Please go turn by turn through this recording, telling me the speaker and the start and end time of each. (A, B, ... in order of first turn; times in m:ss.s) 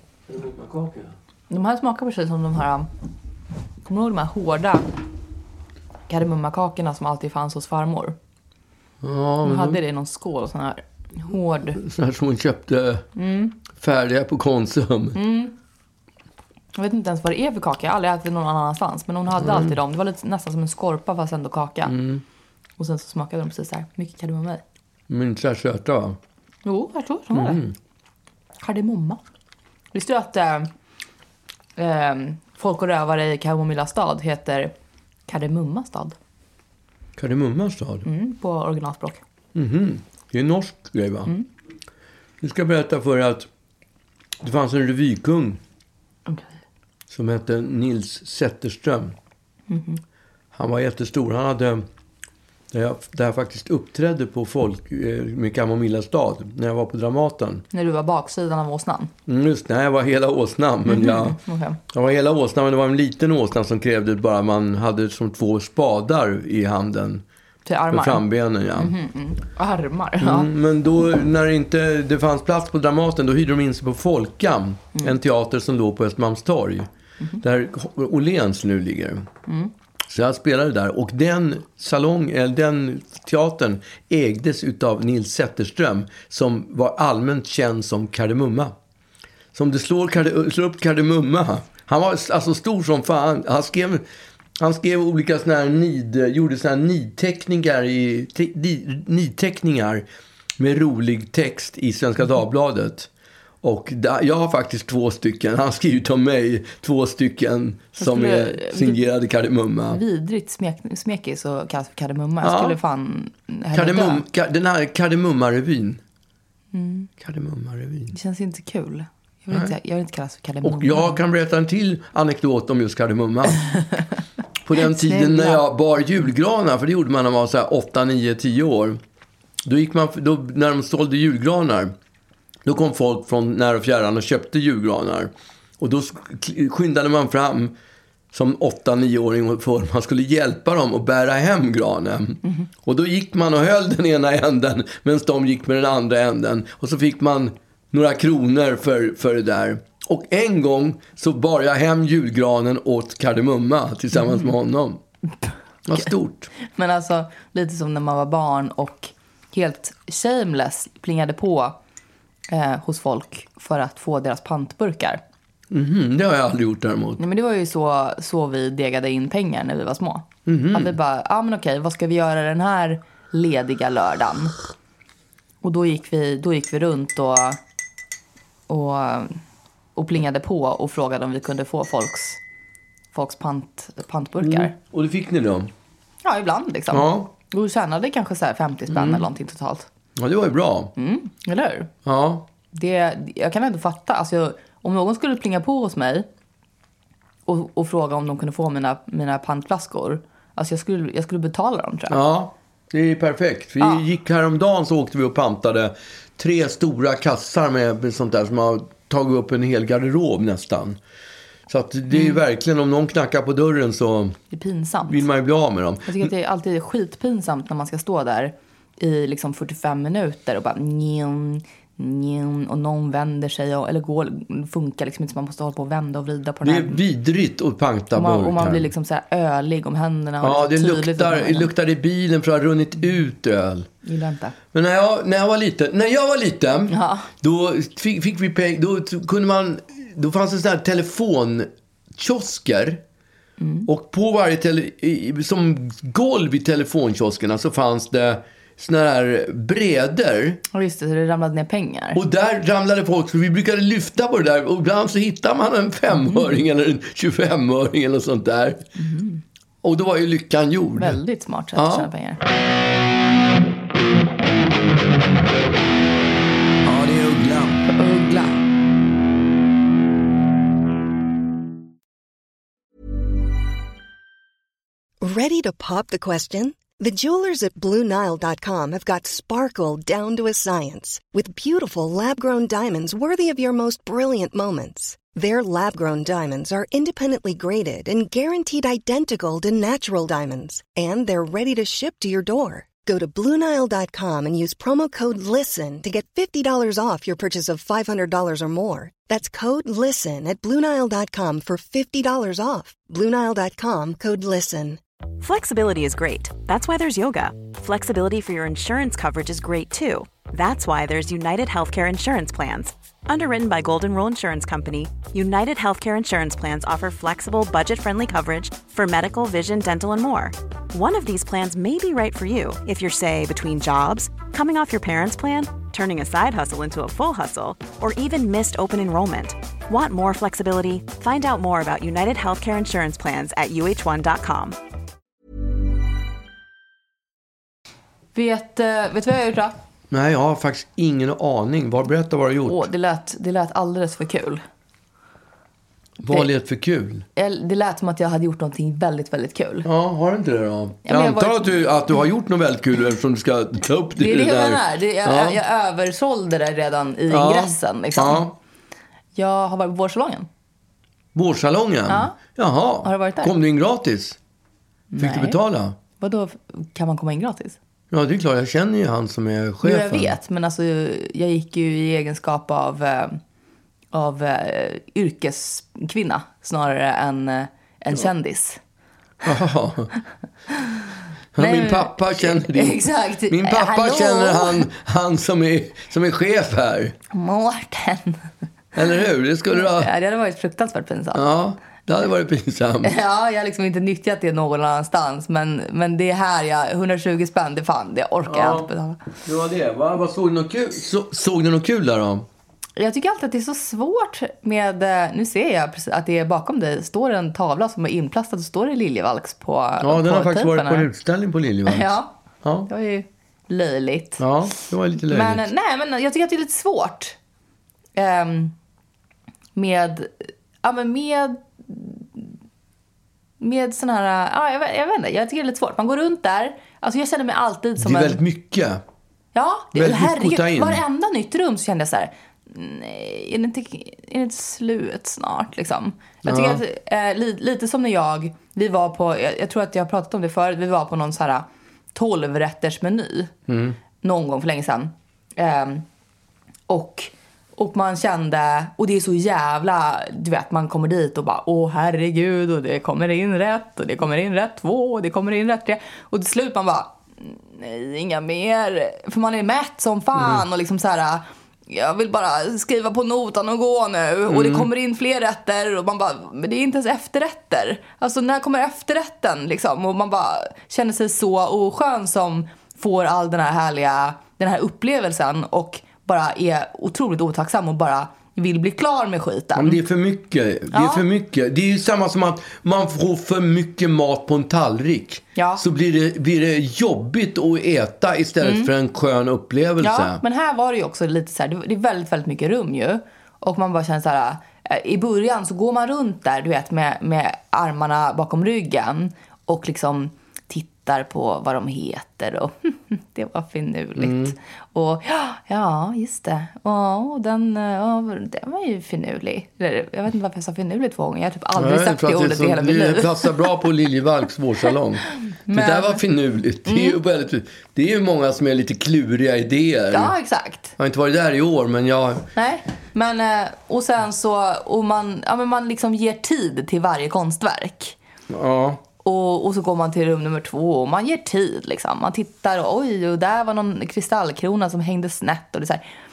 0:00.3-0:01.2 A
0:01.5-0:02.9 B
0:03.9-0:04.9 B
0:06.1-0:08.2 B
0:09.0-0:09.8 A
0:09.4-0:11.8 B
0:11.8-0:13.0 A
0:13.2-0:13.6 B
0:13.8-0:15.2 A
0:15.2-0:15.5 B
0:16.8-0:21.9 B
0:19.4-0:19.8 A
0:21.8-0:22.2 A
0:22.8-0:24.6 B
0:25.1-0:26.2 A
0:26.6-0:27.6 B
0:27.3-0:27.7 A
0:28.6-0:29.2 B
0:29.9-0:30.7 B
0:31.8-0:34.7 B
0:35.3-0:36.2 B
0:37.2-0:38.1 A
0:38.0-0:39.2 B
0:39.5-0:41.3 A
0:42.4-0:43.5 A
0:44.4-0:45.6 A
0:47.1-0:49.2 A
0:49.7-0:50.0 B
0:50.5-0:51.9 A
0:52.7-0:57.6 A
0:57.7-0:59.1 B
0:59.3-1:01.4 A
1:00.9-1:01.8 B
1:01.9-1:07.2 A
1:07.7-1:10.5 B
1:07.9-1:08.9 A
1:10.2-1:19.3 A
1:19.5-1:19.7 B
1:20.1-1:28.8 A
1:29.5-1:34.0 A
1:34.6-1:40.1 A
1:40.6-1:43.1 A
1:43.6-1:50.0 A
1:48.0-1:49.0 B
1:49.9-1:54.2 B
1:52.4-1:52.8 A
1:53.7-1:56.0 A
1:56.7-1:57.1 B
1:57.2-1:58.1 A
1:58.1-2:01.2 B
2:00.6-2:03.7 A
2:04.6-2:09.0 A
2:04.8-2:05.6 B
2:09.6-2:12.0 A
2:12.6-2:17.8 A
2:18.3-2:35.0 A
2:34.2-2:34.5 B
2:35.9-2:36.5 A
2:36.7-2:41.8 B
2:42.5-2:45.2 B
2:45.7-2:47.2 A
2:47.2-2:54.5 B
2:50.5-2:50.9 A
2:55.6-2:57.6 B
2:58.7-2:59.4 B
3:00.0-3:02.4 B
3:03.1-3:04.7 B
3:04.4-3:05.7 A
3:06.2-3:09.9 B
3:06.9-3:07.3 A
3:08.9-3:09.2 A
3:10.2-3:10.9 A
3:11.0-3:11.9 B
3:12.0-3:12.5 A
3:12.7-3:16.3 B
3:17.5-3:22.2 B
3:22.1-3:31.0 A
3:31.7-3:34.4 A
3:32.1-3:32.4 B
3:34.5-3:35.2 B
3:35.1-3:36.3 A
3:36.1-3:47.0 B
3:46.6-3:48.9 A
3:48.2-3:51.7 B
3:50.4-3:53.9 A
3:54.0-3:54.6 B
3:54.7-4:03.0 A
3:56.9-3:57.3 B
4:03.6-4:03.9 B
4:03.9-4:10.6 A
4:10.7-4:12.2 B
4:12.2-4:18.9 A
4:16.2-4:16.5 B
4:19.0-4:19.4 B
4:19.8-4:21.2 A
4:21.0-4:22.4 B
4:21.8-4:22.1 A
4:26.8-4:27.9 A
4:27.9-4:28.6 B
4:35.2-5:05.0 C
5:05.4-5:34.8 D
5:38.4-5:39.7 B
5:40.1-5:42.9 A
5:42.7-5:44.6 B
5:46.2-5:47.2 A
5:47.4-5:49.9 B
5:49.8-5:55.6 A
5:51.1-5:51.8 B
5:54.2-5:58.5 B
5:57.3-5:58.6 A
5:59.4-6:00.5 B
6:01.4-6:04.4 A
6:02.1-6:02.4 B
6:03.0-6:03.5 B
6:05.1-6:05.6 B
6:05.2-6:06.0 A
6:06.2-6:07.8 B
6:08.1-6:10.3 A
6:09.8-6:13.4 B
6:14.1-6:18.8 B
6:19.4-6:20.1 A
6:20.7-6:21.0 B
6:21.6-6:27.2 A
6:21.6-6:24.9 B
6:27.3-6:28.4 B
6:29.0-6:30.1 A
6:29.7-6:31.4 B
6:31.3-6:33.1 A
6:33.0-6:39.2 B
6:38.5-6:38.9 A
6:39.4-6:42.5 A
6:43.0-6:51.1 B
6:50.0-6:52.1 A
6:51.9-6:52.4 B
6:52.6-6:52.9 A
6:52.9-6:54.4 B
6:54.4-6:55.7 A
6:55.2-6:57.4 B
6:58.2-6:58.7 B
6:59.8-7:00.3 B
7:00.8-7:02.5 B
7:03.6-7:08.4 B
7:08.0-7:09.0 A
7:09.6-7:23.5 B
7:10.0-7:11.0 A
7:16.4-7:16.8 A
7:23.7-7:24.0 A
7:24.2-7:26.0 B
7:26.9-8:00.0 B
7:40.4-7:40.6 A
7:44.5-7:44.9 A
7:59.8-8:10.4 A
8:00.9-8:01.2 B
8:05.6-8:05.8 B
8:08.6-8:08.9 B
8:10.0-8:33.8 B
8:24.2-8:24.6 A
8:31.8-8:40.3 A
8:35.7-8:36.2 B
8:36.9-8:37.2 B
8:40.1-8:40.9 B
8:41.0-8:42.5 A
8:42.6-8:48.2 B
8:48.5-8:49.0 A
8:49.2-8:56.0 B